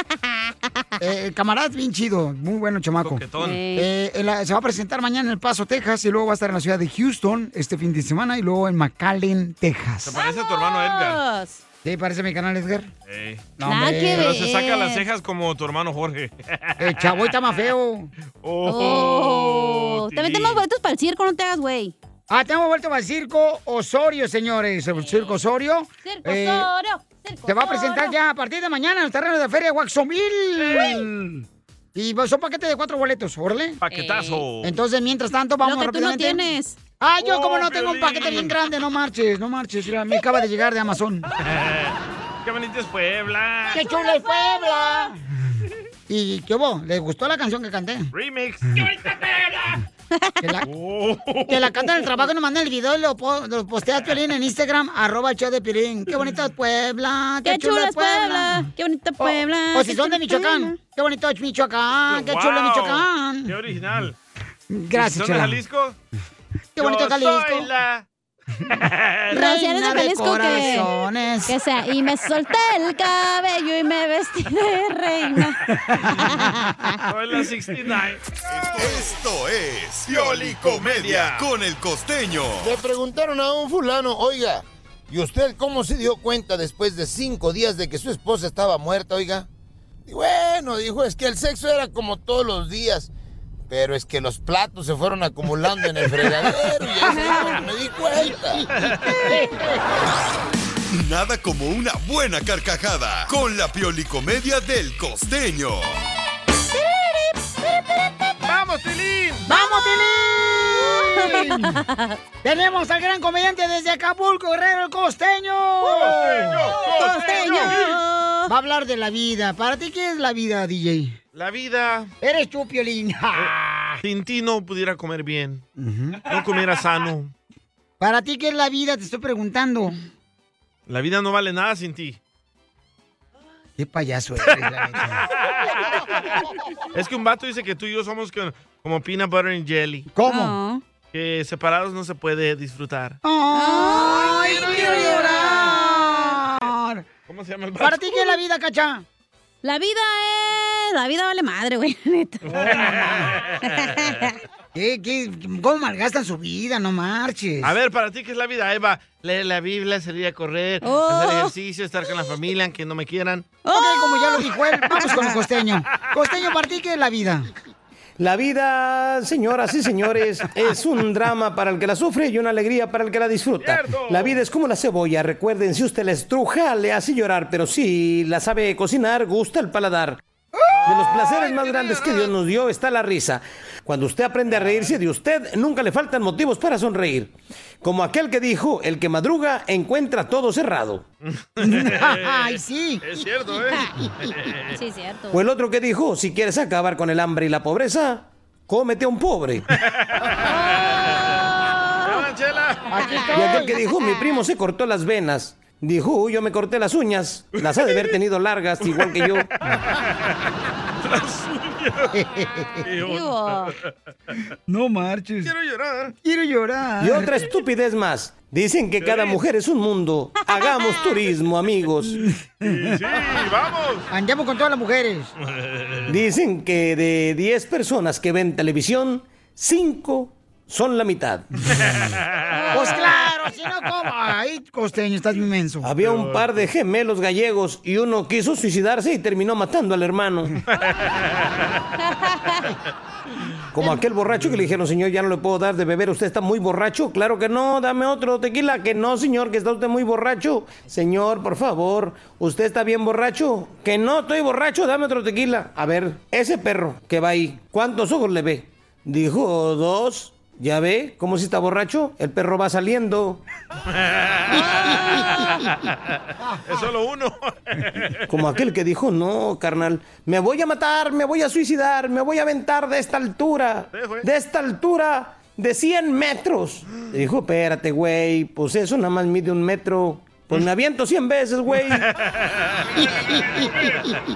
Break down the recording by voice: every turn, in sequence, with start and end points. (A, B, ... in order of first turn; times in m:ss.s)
0:01.0-0:03.2 A
0:03.0-0:03.6 B
0:03.4-0:03.9 C
0:03.8-0:10.2 A
0:10.0-0:11.2 B
0:10.2-0:11.6 C
0:11.8-0:12.9 A
0:13.1-0:13.6 B
0:13.6-0:14.4 A
0:13.6-0:15.0 C
0:14.1-0:17.7 B
0:16.8-0:18.1 A
0:18.4-0:20.6 B
0:18.6-0:22.0 C
0:22.3-0:26.7 A
0:25.0-0:25.4 C
0:26.0-0:28.2 C
0:27.5-0:33.8 A
0:33.8-0:34.7 B
0:33.9-0:34.4 C
0:34.6-0:36.5 A
0:35.6-0:36.8 C
0:37.0-0:41.3 A
0:37.2-0:38.6 B
0:41.4-0:43.8 B
0:43.7-0:45.2 A
0:43.8-0:45.1 C
0:46.1-0:48.1 A
0:48.1-0:49.8 B
0:50.4-0:50.7 A
0:50.7-0:52.2 B
0:51.5-0:58.7 A
0:57.4-1:00.8 C
0:59.2-1:03.5 A
1:02.1-1:04.2 B
1:04.7-1:05.6 A
1:04.9-1:06.0 B
1:06.8-1:07.7 A
1:06.8-1:08.1 B
1:08.7-1:09.4 B
1:09.3-1:11.6 A
1:09.3-1:10.9 C
1:11.5-1:17.0 C
1:17.1-1:19.1 B
1:18.5-1:22.8 D
1:20.1-1:21.5 B
1:22.6-1:29.5 E
1:30.1-1:33.1 E
1:33.7-1:38.7 E
1:38.8-1:39.2 B
1:40.9-1:45.9 D
1:48.4-1:49.5 B
1:49.5-1:51.8 A
1:49.5-1:50.0 C
1:50.8-1:52.2 C
1:52.4-1:57.8 A
1:55.8-1:58.0 B
1:56.8-1:58.5 C
1:58.5-2:01.2 A
2:01.3-2:02.1 B
2:02.2-2:04.0 A
2:04.0-2:05.6 B
2:05.8-2:06.3 A
2:06.2-2:07.3 B
2:08.0-2:10.0 A
2:10.9-2:12.2 B
2:13.8-2:15.2 A
2:16.9-2:20.1 B
2:20.1-2:20.6 A
2:20.2-2:20.8 C
2:21.1-2:23.2 B
2:23.2-2:27.0 A
2:23.5-2:26.1 C
2:27.3-2:28.2 B
2:27.8-2:29.0 A
2:29.6-2:33.1 C
2:32.4-2:33.6 B
2:33.6-2:34.4 C
2:34.8-2:37.7 A
2:37.6-2:43.5 B
2:40.8-2:41.5 C
2:43.6-2:45.3 C
2:43.7-2:47.5 A
2:48.2-3:00.2 F
2:53.6-2:54.4 B
3:00.7-3:02.3 B
3:00.9-3:11.0 F
3:04.5-3:05.0 B
3:11.6-3:14.8 B
3:11.6-3:13.2 A
3:14.7-3:15.4 C
3:15.3-3:19.7 F
3:19.8-3:21.4 B
3:20.4-3:22.2 C
3:22.0-3:23.3 B
3:22.9-3:23.8 A
3:23.4-3:24.2 C
3:23.4-3:29.5 F
3:27.8-3:28.1 B
3:28.8-3:30.1 B
3:31.0-3:32.2 B
3:32.1-3:32.8 A
3:32.8-3:33.8 B
3:33.0-3:33.7 C
3:34.7-3:35.5 A
3:35.4-3:36.2 B
3:36.2-3:37.3 A
3:37.0-3:42.2 F
3:39.0-3:39.4 B
3:40.6-3:41.0 C
3:42.1-3:42.8 A
3:42.6-3:44.1 B
3:44.1-3:45.3 A
3:45.6-3:46.1 B
3:46.1-3:51.5 F
3:51.8-3:52.7 B
3:52.5-3:53.1 C
3:52.7-3:55.9 A
3:55.8-4:00.6 F
3:56.0-3:56.6 B
4:00.7-4:01.2 B
4:02.1-4:02.7 C
4:03.7-4:23.4 F
4:23.9-4:25.9 B
4:26.6-4:28.2 B
4:28.3-4:42.1 F
4:33.9-4:34.3 B
4:41.9-4:42.2 B
4:42.8-4:44.2 B